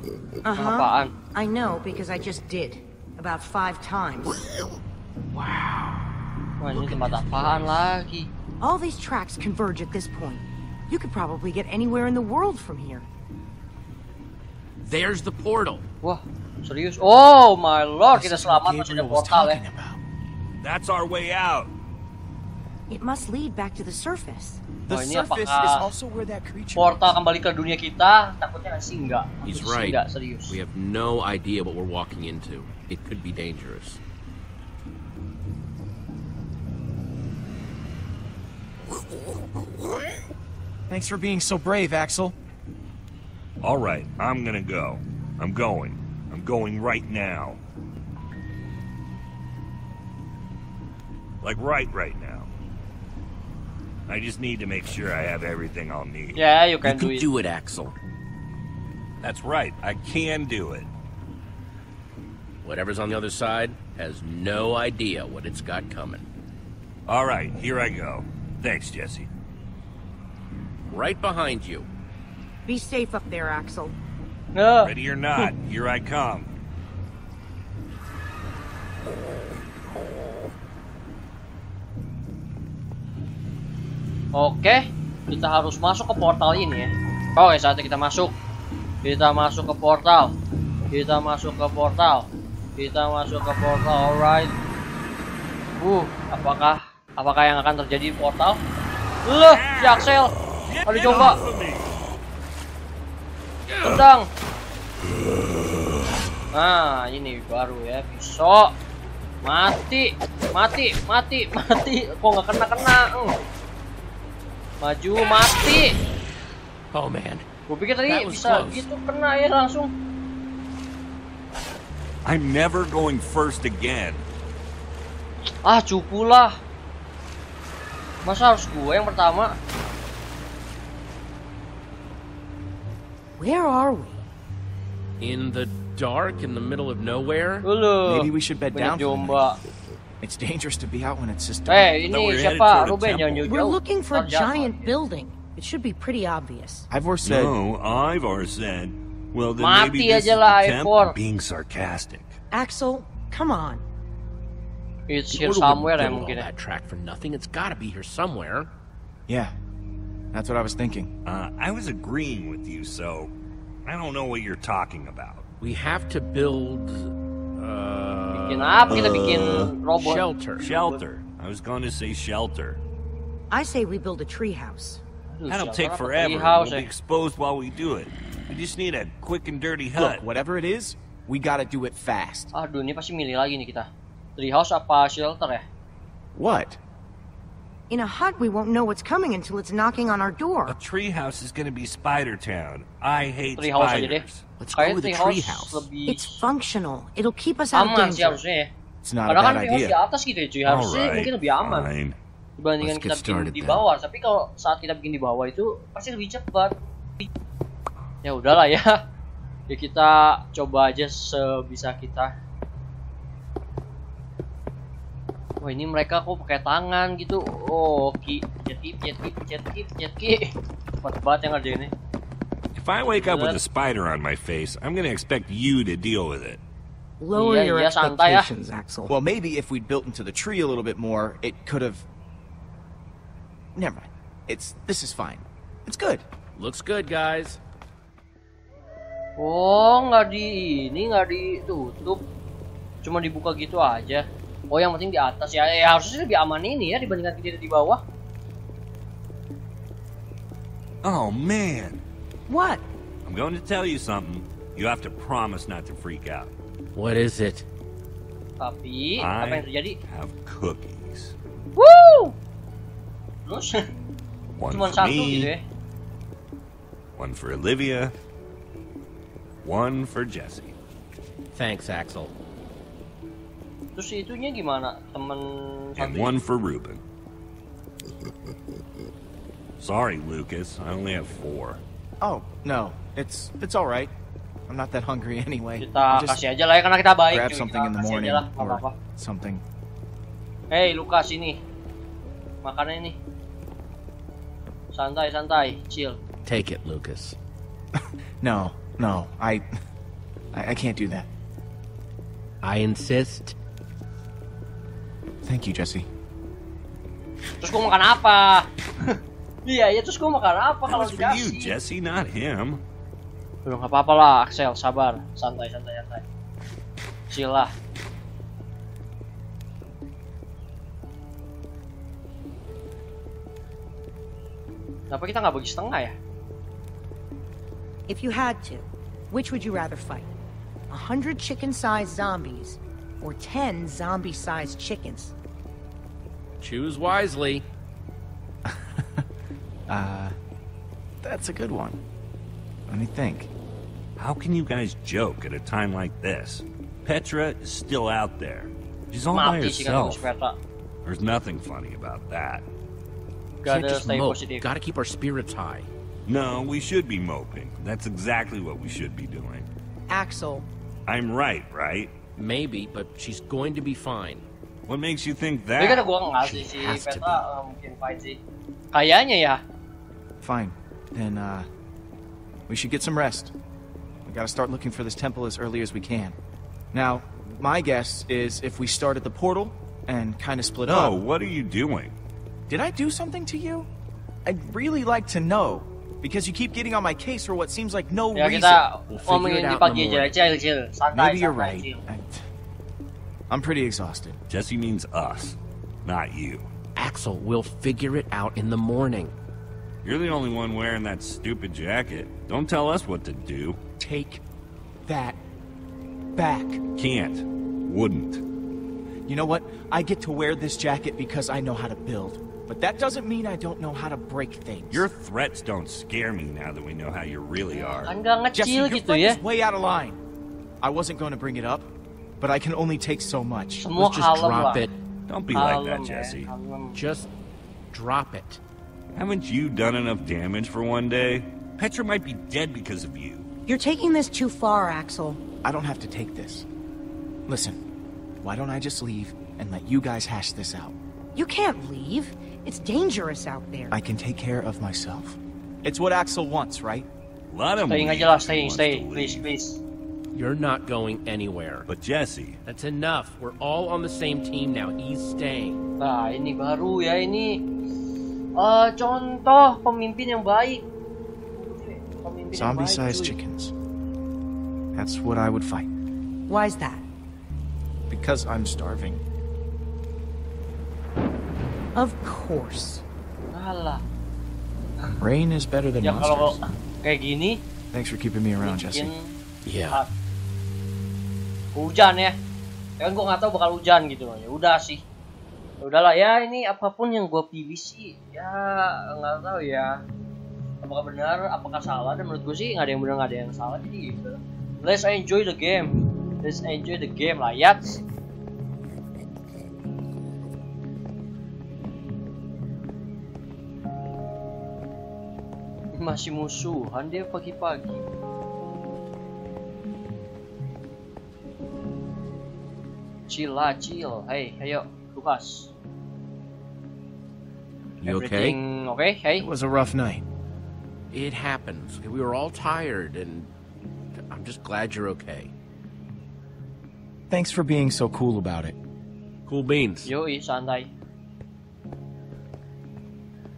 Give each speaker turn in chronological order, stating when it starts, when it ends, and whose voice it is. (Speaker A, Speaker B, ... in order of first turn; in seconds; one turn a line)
Speaker A: 0.4-4.4
Speaker B: 0.6-1.1
Speaker C: 5.3-6.1
Speaker B: 6.6-8.3
Speaker C: 6.7-7.9
Speaker A: 8.6-13.1
Speaker C: 14.8-15.8
Speaker B: 16.0-19.6
Speaker D: 18.1-20.0
Speaker E: 20.6-21.7
Speaker A: 22.9-24.6
Speaker D: 24.9-27.2
Speaker B: 24.9-25.9
Speaker B: 26.8-30.6
Speaker C: 29.4-30.0
Speaker C: 30.5-34.0
Speaker D: 40.9-42.4
Speaker E: 43.6-47.6
Speaker E: 51.4-52.5
Speaker E: 54.1-56.4
Speaker B: 56.4-57.3
Speaker C: 56.8-58.0
Speaker E: 59.2-60.9
Speaker C: 62.6-66.2
Speaker E: 67.1-69.3
Speaker C: 70.9-71.9
Speaker A: 72.7-74.0
Speaker B: 74.5-74.9
Speaker E: 74.8-76.6
Speaker B: 84.3-88.3
Speaker B: 89.0-90.3
Speaker B: 90.9-94.5
Speaker B: 95.8-98.6
Speaker B: 99.2-100.3
Speaker E: 99.5-102.0
Speaker B: 100.9-101.4
Speaker B: 103.8-104.3
Speaker B: 106.5-108.7
Speaker B: 109.4-113.3
Speaker B: 114.8-115.9
Speaker C: 116.9-117.5
Speaker B: 117.7-119.9
Speaker C: 118.1-118.8
Speaker E: 122.2-124.2
Speaker B: 125.6-126.5
Speaker B: 128.2-129.5
Speaker A: 133.4-134.2
Speaker C: 135.2-137.6
Speaker B: 137.6-139.6
Speaker D: 138.1-139.5
Speaker D: 140.2-142.0
Speaker B: 141.7-144.9
Speaker E: 142.0-143.5
Speaker A: 143.5-146.9
Speaker D: 146.9-147.6
Speaker E: 147.2-152.4
Speaker B: 149.6-151.2
Speaker A: 152.5-153.8
Speaker B: 155.1-156.5
Speaker C: 155.3-158.7
Speaker D: 159.3-159.5
Speaker D: 160.3-161.1
Speaker E: 161.3-163.3
Speaker E: 163.8-165.4
Speaker C: 165.6-169.0
Speaker B: 168.3-171.0
Speaker E: 168.9-169.7
Speaker C: 170.0-170.6
Speaker E: 170.6-172.8
Speaker A: 173.5-175.0
Speaker B: 175.3-176.9
Speaker E: 175.5-180.2
Speaker D: 179.9-182.5
Speaker B: 182.5-185.6
Speaker D: 186.3-186.8
Speaker A: 187.9-190.8
Speaker E: 190.7-194.5
Speaker B: 193.6-196.5
Speaker C: 194.6-195.9
Speaker A: 196.0-198.4
Speaker B: 197.7-198.7
Speaker D: 199.0-200.0
Speaker B: 199.3-201.9
Speaker E: 200.7-202.2
Speaker B: 202.6-206.8
Speaker C: 202.8-203.8
Speaker B: 208.2-208.9
Speaker B: 209.7-212.3
Speaker B: 215.6-221.9
Speaker E: 222.8-226.6
Speaker B: 223.1-223.6
Speaker A: 227.2-229.1
Speaker B: 227.3-228.5
Speaker D: 229.1-232.1
Speaker D: 233.8-236.2
Speaker C: 236.6-237.6
Speaker B: 239.4-242.2
Speaker B: 243.0-248.0
Speaker E: 251.0-252.0
Speaker A: 252.5-252.8
Speaker E: 253.2-256.5
Speaker C: 256.9-257.7
Speaker B: 258.6-260.0
Speaker E: 259.2-261.4
Speaker B: 261.8-262.4
Speaker B: 263.5-263.8
Speaker E: 264.6-265.5
Speaker B: 264.7-265.6
Speaker E: 267.2-268.1
Speaker E: 269.6-270.8
Speaker C: 271.6-272.3
Speaker B: 273.9-276.4
Speaker E: 276.0-277.0
Speaker E: 279.8-281.8
Speaker D: 282.2-284.1
Speaker D: 284.7-286.4
Speaker B: 285.8-288.9
Speaker D: 287.3-289.6
Speaker B: 290.7-291.6
Speaker B: 292.6-293.2
Speaker B: 294.9-296.2
Speaker C: 296.5-297.4
Speaker D: 298.4-299.7
Speaker D: 300.5-301.3
Speaker C: 302.6-303.6
Speaker D: 305.4-306.1
Speaker B: 307.6-311.8
Speaker E: 310.9-312.8
Speaker B: 313.6-316.2
Speaker B: 317.3-317.7
Speaker B: 325.1-326.1
Speaker A: 328.1-330.3
Speaker A: 330.9-335.3
Speaker C: 336.6-337.6
Speaker D: 338.7-339.2
Speaker D: 339.9-340.3
Speaker D: 341.2-342.0
Speaker D: 342.9-343.5
Speaker E: 344.2-350.3
Speaker B: 349.3-350.6
Speaker E: 351.1-352.6
Speaker B: 353.6-354.7
Speaker C: 353.7-355.9
Speaker E: 356.3-359.7
Speaker A: 360.1-360.7
Speaker E: 361.1-362.1
Speaker C: 362.4-364.4
Speaker E: 364.9-366.1
Speaker B: 365.8-368.4
Speaker C: 366.4-367.4
Speaker B: 368.9-369.6
Speaker D: 370.4-371.7
Speaker D: 372.7-373.5
Speaker D: 374.3-376.4
Speaker D: 376.9-381.2
Speaker E: 380.9-382.1
Speaker D: 382.7-383.9
Speaker D: 384.4-388.8
Speaker B: 388.3-392.0
Speaker C: 389.1-390.4
Speaker D: 391.1-392.4
Speaker D: 393.5-394.4
Speaker E: 394.5-396.7
Speaker C: 397.0-399.3
Speaker E: 400.0-403.8
Speaker D: 404.0-404.4
Speaker D: 405.1-405.4
Speaker D: 406.4-406.8
Speaker E: 407.0-408.4
Speaker D: 409.3-415.1
Speaker E: 414.9-418.1
Speaker B: 417.7-419.4
Speaker D: 418.5-420.2
Speaker D: 420.8-421.9
Speaker D: 422.4-423.9
Speaker B: 423.8-424.9
Speaker C: 424.0-424.9
Speaker E: 425.3-426.5
Speaker B: 425.5-427.0
Speaker C: 426.9-427.3
Speaker C: 427.9-428.6
Speaker E: 429.1-433.5
Speaker A: 433.7-435.4
Speaker D: 435.6-436.7
Speaker D: 437.5-437.8
Speaker D: 438.4-440.9
Speaker A: 441.4-444.0
Speaker D: 443.9-447.1
Speaker E: 447.5-449.5
Speaker B: 447.9-449.8
Speaker C: 450.3-451.9
Speaker E: 451.9-452.6
Speaker C: 452.7-455.9
Speaker B: 456.0-457.6
Speaker B: 458.6-460.9
Speaker B: 461.6-463.4
Speaker D: 462.5-463.7
Speaker D: 464.9-465.9
Speaker A: 466.5-467.0
Speaker D: 468.1-469.2
Speaker A: 472.0-473.0
Speaker B: 473.5-474.0
Speaker D: 475.2-476.6
Speaker B: 476.0-477.6
Speaker D: 477.9-479.1
Speaker B: 478.6-479.4
Speaker C: 479.6-480.0
Speaker B: 481.7-482.3
Speaker B: 483.0-485.0
Speaker B: 485.8-490.0
Speaker B: 490.8-498.0
Speaker B: 506.0-508.1
Speaker B: 513.3-515.7
Speaker C: 518.0-518.6
Speaker B: 518.0-519.5
Speaker D: 519.4-520.2
Speaker C: 521.1-523.5
Speaker C: 524.2-525.5
Speaker D: 527.3-528.8
Speaker C: 529.5-530.1
Speaker B: 530.0-530.9